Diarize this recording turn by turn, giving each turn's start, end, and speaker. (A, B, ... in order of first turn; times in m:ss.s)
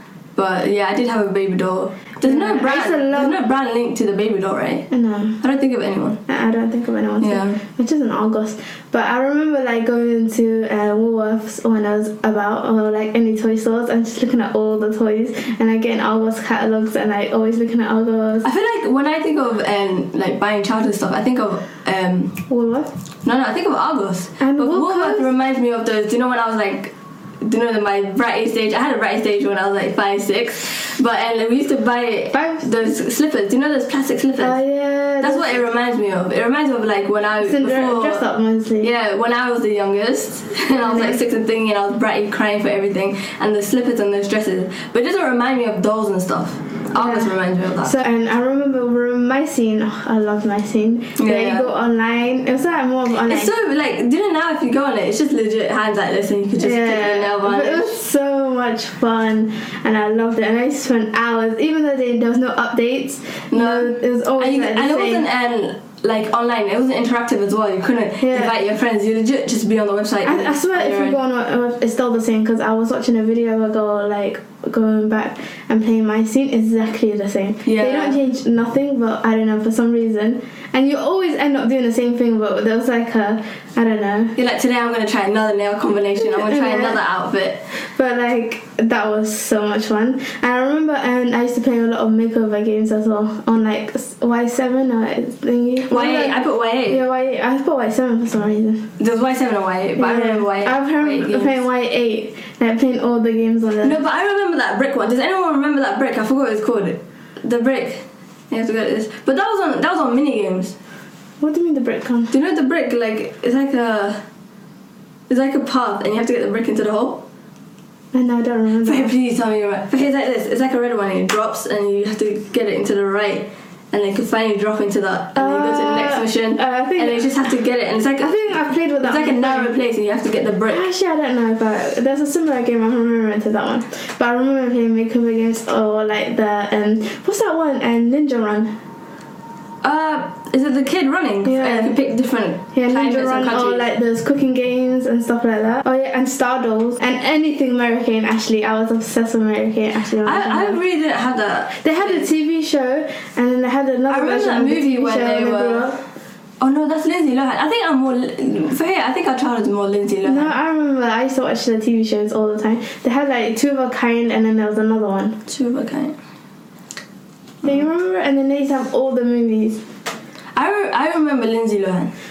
0:00.4-0:04.9 A
0:02.2-0:03.4 B
0:04.9-0:05.4 B
0:05.4-0:06.2 A
0:06.3-0:18.5 B
0:07.2-0:07.6 A
0:18.4-0:22.3 A
0:22.5-0:22.9 B
0:23.2-0:34.6 A
0:24.4-0:25.3 B
0:32.3-0:32.7 B
0:34.4-0:35.6 B
0:35.2-0:38.2 A
0:37.4-0:38.9 B
0:38.8-0:47.9 A
0:40.7-0:41.2 B
0:46.9-0:47.3 B
0:47.8-0:53.5 B
0:51.2-0:51.7 A
0:53.2-0:58.0 A
0:56.6-1:05.2 B
1:03.5-1:11.2 A
1:08.2-1:08.5 B
1:10.2-1:24.4 B
1:17.6-1:18.1 A
1:24.4-1:27.7 A
1:26.2-1:27.0 B
1:27.7-1:38.9 B
1:35.8-1:37.0 A
1:39.0-1:41.6 A
1:40.0-1:44.0 B
1:43.8-1:50.8 A
1:51.4-1:52.3 B
1:52.3-1:54.2 A
1:55.3-1:57.2 A
1:58.1-1:59.1 B
1:58.8-2:08.3 A
2:05.3-2:07.3 B
2:08.2-2:09.7 B
2:09.0-2:10.9 A
2:10.7-2:18.8 B
2:19.8-2:23.8 A
2:21.4-2:22.0 B
2:22.7-2:30.8 B
2:30.2-2:32.3 A
2:31.8-2:36.0 B
2:34.1-2:35.9 A
2:36.6-2:40.5 A
2:40.2-2:45.4 B
2:45.5-2:46.2 A
2:47.6-2:49.8 B
2:50.5-2:52.1 A